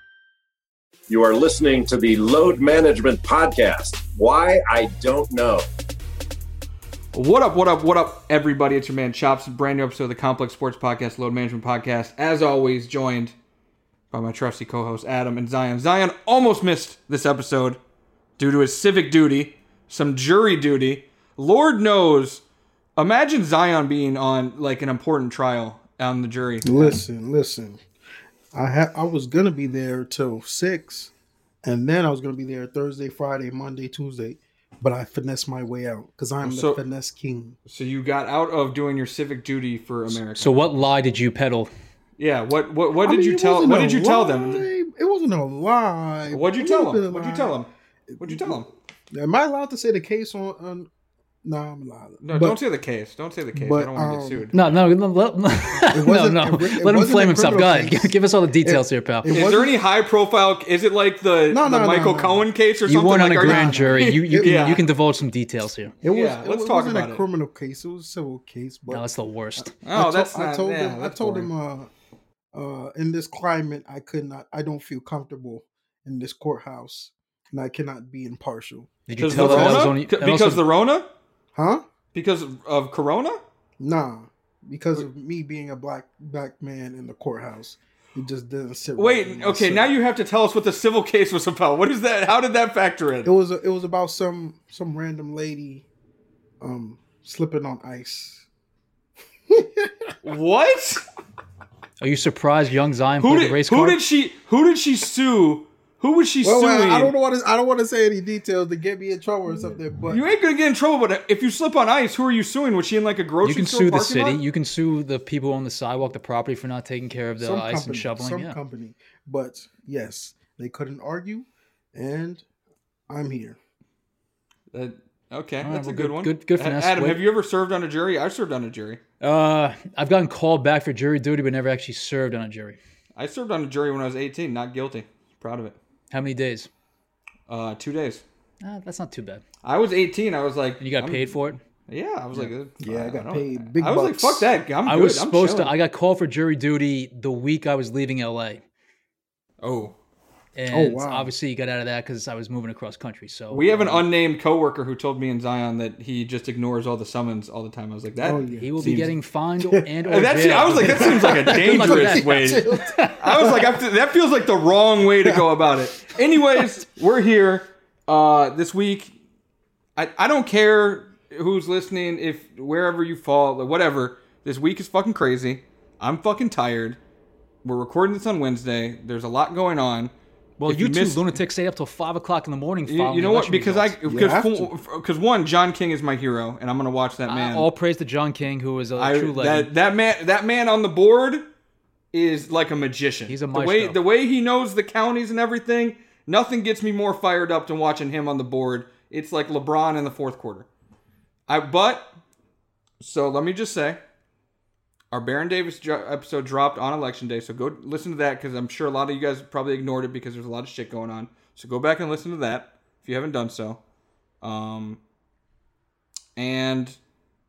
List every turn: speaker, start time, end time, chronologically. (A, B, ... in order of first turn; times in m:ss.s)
0:01.1-0:05.6 A
0:07.1-0:13.3 B
0:14.1-0:17.8 B
0:18.4-0:22.4 B
0:23.0-0:27.0 B
0:26.6-0:27.8 C
0:28.5-0:31.1 C
0:31.6-0:37.6 C
0:36.4-0:36.8 B
0:37.7-0:40.6 B
0:40.3-0:41.7 D
0:42.2-0:44.7 B
0:43.0-0:50.9 C
0:46.3-0:48.7 B
0:51.4-0:52.6 C
0:52.2-0:54.5 B
0:53.5-0:54.5 C
0:54.5-0:59.3 D
0:55.9-0:59.8 C
0:59.3-1:04.8 B
1:01.5-1:02.4 C
1:02.8-1:05.9 D
1:03.4-1:04.8 C
1:06.0-1:09.0 C
1:06.0-1:07.2 B
1:08.9-1:09.7 D
1:09.6-1:11.9 C
1:09.8-1:11.5 B
1:12.5-1:19.9 C
1:19.1-1:20.6 D
1:19.2-1:21.1 B
1:21.5-1:21.8 C
1:22.1-1:23.4 B
1:23.8-1:29.9 C
1:29.0-1:33.3 B
1:33.2-1:35.8 C
1:36.6-1:38.4 C
1:39.5-1:40.1 C
1:40.2-1:41.0 B
1:42.0-1:44.0 D
1:43.2-1:47.1 B
1:46.4-1:50.3 C
1:50.1-1:54.4 B
1:53.4-1:58.6 D
1:57.4-2:02.4 C
2:03.1-2:03.6 C
2:04.7-2:09.0 B
2:05.6-2:07.2 D
2:09.2-2:12.8 D
2:13.2-2:15.8 B
2:16.1-2:16.7 D
2:17.5-2:18.2 B
2:18.6-2:19.4 D
2:19.6-2:25.7 B
2:20.8-2:21.6 D
2:22.8-2:24.5 C
2:24.8-2:28.6 D
2:29.6-2:30.0 B
2:30.6-2:34.0 D
2:30.7-2:31.3 C
2:33.5-2:39.1 B
2:38.2-2:38.7 C
2:38.6-2:43.5 D
2:40.1-2:42.7 B
2:40.7-2:43.7 C
2:43.2-2:49.1 B
2:50.0-2:57.0 B
2:57.6-3:00.1 B
3:00.6-3:04.0 D
3:00.6-3:01.3 B
3:02.9-3:07.7 B
3:04.0-3:04.7 C
3:07.3-3:09.7 D
3:09.0-3:11.4 B
3:12.1-3:20.7 B
3:13.3-3:14.0 D
3:21.5-3:22.1 B
3:23.0-3:24.0 B
3:25.1-3:33.8 B
3:34.4-3:35.0 B
3:36.4-3:37.0 B